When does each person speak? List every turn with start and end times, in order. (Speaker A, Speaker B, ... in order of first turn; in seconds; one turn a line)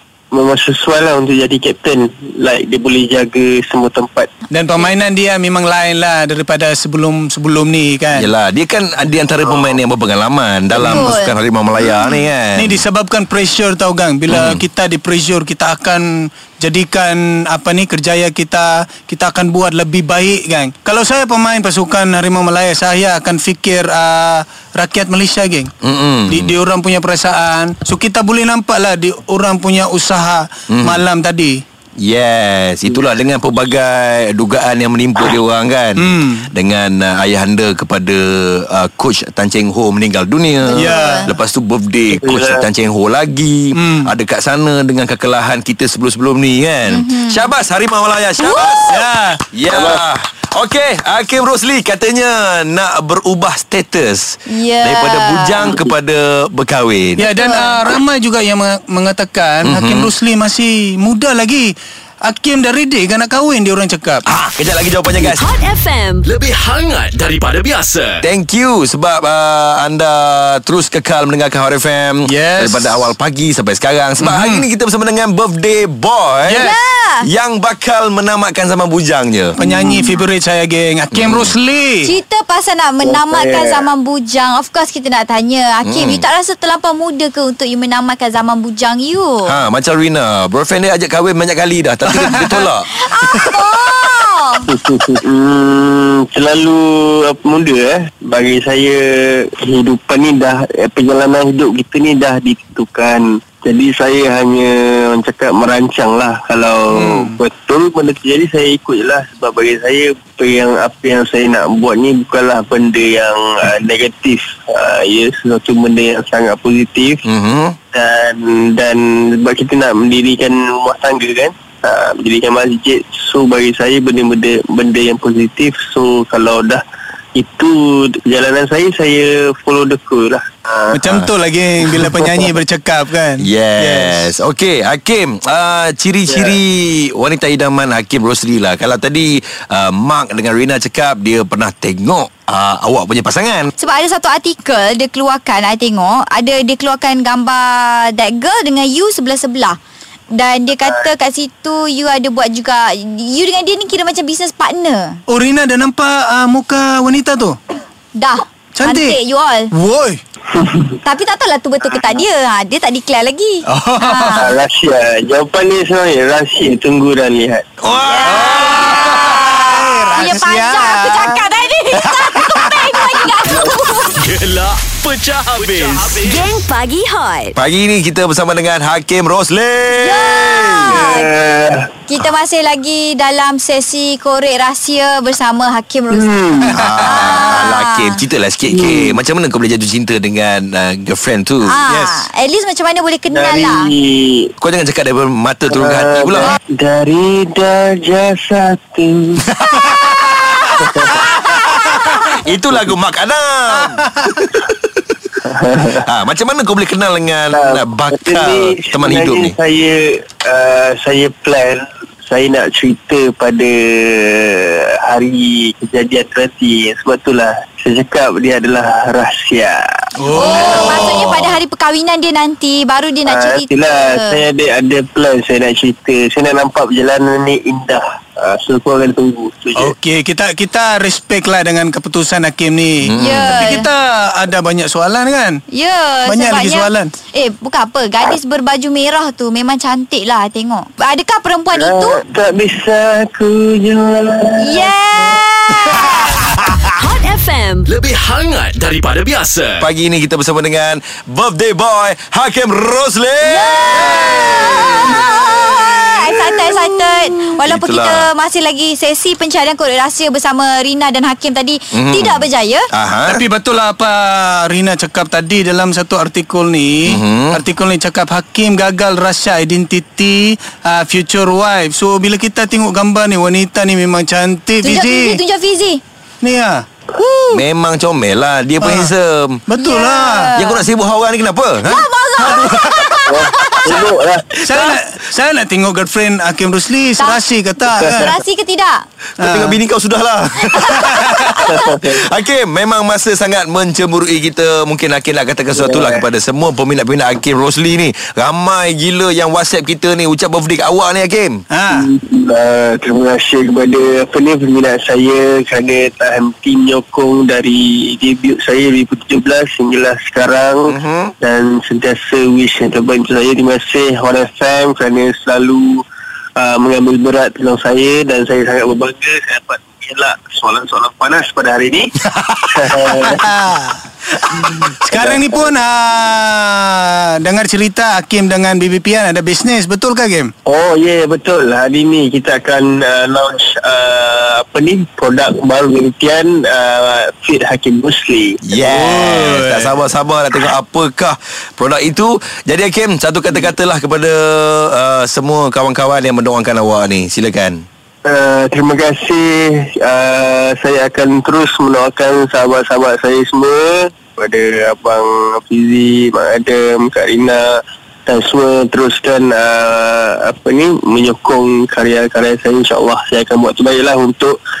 Speaker A: 0.3-4.3
Speaker B: 4.5-8.3
Speaker C: 8.1-12.8
Speaker A: 9.4-9.8
Speaker B: 10.8-11.1
Speaker D: 10.8-11.3
Speaker B: 12.6-25.7
Speaker C: 14.3-14.6
Speaker C: 25.8-26.5
Speaker B: 26.3-31.6
Speaker C: 30.7-31.0
Speaker C: 32.0-49.0
Speaker B: 36.0-36.5
Speaker D: 40.6-41.3
Speaker B: 40.7-41.3
Speaker A: 42.1-42.6
Speaker B: 43.8-44.1
Speaker D: 46.9-47.5
Speaker D: 48.4-48.9
Speaker B: 48.9-49.4
Speaker C: 49.5-57.3
Speaker A: 49.7-50.0
Speaker D: 54.5-55.6
Speaker A: 55.6-55.9
Speaker B: 57.2-61.7
Speaker D: 57.3-57.8
Speaker C: 59.6-60.1
Speaker B: 62.2-64.2
Speaker C: 64.3-65.4
Speaker E: 65.1-66.2
Speaker F: 66.2-68.2
Speaker C: 68.2-76.7
Speaker B: 72.2-73.1
Speaker B: 74.2-74.7
Speaker B: 76.4-76.8
Speaker D: 76.6-77.2
Speaker C: 77.2-79.6
Speaker B: 79.5-82.2
Speaker C: 81.1-81.5
Speaker D: 82.0-89.5
Speaker A: 83.0-83.9
Speaker C: 85.8-86.2
Speaker C: 89.5-92.9
Speaker B: 92.2-92.5
Speaker D: 93.0-94.7
Speaker A: 94.7-117.2
Speaker B: 106.9-107.4
Speaker C: 117.2-117.8
Speaker A: 117.9-126.8
Speaker A: 127.3-130.9
Speaker B: 130.9-134.3
Speaker C: 133.4-143.7
Speaker A: 136.3-136.6
Speaker D: 143.8-149.8
Speaker D: 150.3-155.2
Speaker B: 155.3-157.6
Speaker D: 158.2-159.7
Speaker B: 158.7-159.2
Speaker B: 159.7-160.2
Speaker A: 160.5-161.0
Speaker D: 161.0-164.5
Speaker B: 163.7-164.4
Speaker A: 164.3-167.7
Speaker C: 167.8-169.6
Speaker D: 168.0-174.2
Speaker B: 168.2-171.5
Speaker B: 172.0-173.2
Speaker F: 174.1-176.5
Speaker E: 176.3-177.5
Speaker C: 177.5-180.9
Speaker D: 179.9-181.3
Speaker A: 180.8-181.9
Speaker D: 182.1-186.3
Speaker A: 186.1-186.8
Speaker B: 186.7-187.5
Speaker C: 186.7-191.8
Speaker D: 187.0-188.2
Speaker A: 188.7-189.2
Speaker D: 191.6-193.9
Speaker B: 191.9-192.3
Speaker A: 193.3-194.5
Speaker C: 194.6-196.6
Speaker A: 195.7-199.5
Speaker B: 199.5-200.7
Speaker A: 200.8-201.3
Speaker B: 201.5-202.2
Speaker D: 201.6-202.1
Speaker C: 202.2-204.1
Speaker B: 204.0-204.4
Speaker A: 205.4-206.0
Speaker C: 206.0-209.6
Speaker A: 207.5-219.8
Speaker B: 220.2-221.1
Speaker D: 220.3-224.4
Speaker C: 220.3-221.6
Speaker A: 223.2-229.9
Speaker B: 229.8-235.6
Speaker C: 233.0-233.7
Speaker D: 233.2-233.9
Speaker D: 235.7-242.2
Speaker B: 236.2-237.1
Speaker A: 241.7-244.9
Speaker D: 244.6-246.4
Speaker E: 247.0-247.9
Speaker F: 247.9-249.8
Speaker C: 249.8-256.8
Speaker D: 253.4-262.9
Speaker C: 257.6-258.3
Speaker C: 261.9-263.4
Speaker B: 263.3-275.4
Speaker C: 267.1-267.6
Speaker D: 274.8-276.0
Speaker B: 276.4-277.4
Speaker C: 277.5-279.6
Speaker B: 278.8-279.1
Speaker B: 279.7-280.5
Speaker D: 279.8-280.8
Speaker C: 280.6-282.7
Speaker D: 281.8-284.1
Speaker B: 282.6-283.1
Speaker A: 283.3-284.6
Speaker B: 284.6-288.3
Speaker A: 287.9-288.4
Speaker D: 288.1-289.0
Speaker C: 289.4-301.6
Speaker B: 289.4-289.8
Speaker D: 290.7-291.8
Speaker A: 291.6-292.2
Speaker A: 295.7-296.2
Speaker B: 301.7-302.1
Speaker A: 301.9-316.0
Speaker C: 310.9-311.3
Speaker A: 316.6-322.1
Speaker B: 322.3-330.5
Speaker A: 322.7-323.5
Speaker A: 324.5-325.7
Speaker A: 330.6-338.6
Speaker C: 338.6-347.8
Speaker B: 338.7-339.9
Speaker A: 348.2-357.6
Speaker A: 358.2-364.6